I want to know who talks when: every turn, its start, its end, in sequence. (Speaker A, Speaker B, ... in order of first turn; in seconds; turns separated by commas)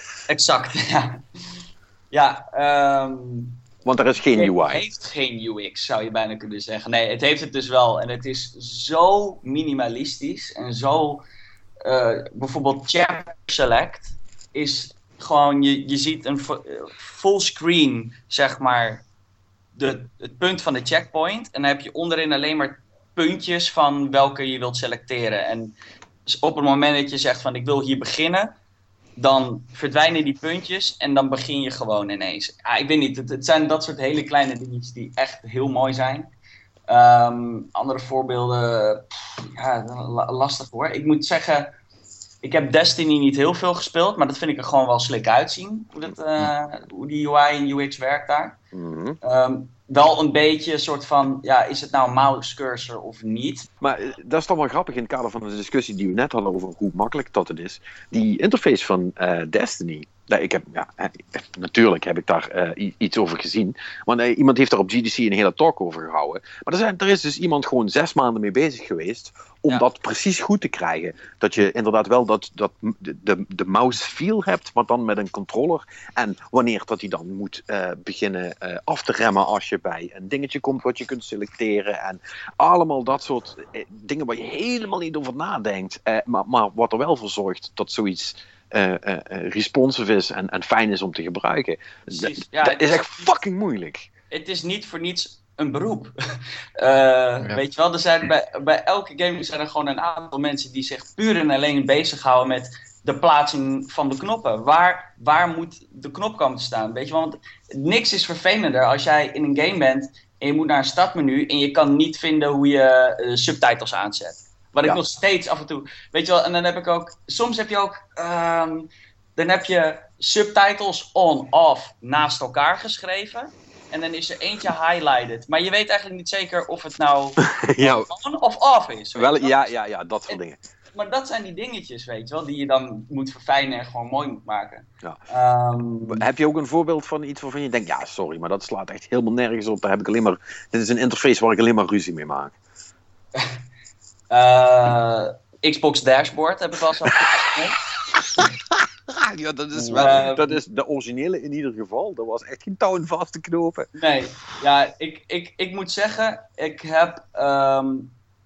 Speaker A: 0.3-1.2, Speaker A: 2.1-3.6, Speaker B: 3.8-4.8, Speaker A: 4.3-11.2, Speaker A: 11.8-19.0, Speaker A: 19.8-28.5, Speaker A: 29.2-36.3, Speaker A: 36.9-41.7, Speaker A: 42.4-48.6, Speaker B: 48.7-49.2, Speaker A: 49.2-53.7, Speaker B: 53.8-94.1, Speaker A: 92.1-93.3, Speaker A: 94.3-96.1, Speaker A: 96.8-129.7, Speaker B: 127.4-128.1, Speaker B: 129.1-130.6, Speaker A: 130.9-136.2, Speaker B: 136.0-142.6, Speaker A: 144.3-147.8, Speaker B: 148.1-153.9, Speaker A: 149.9-150.6, Speaker A: 153.9-158.1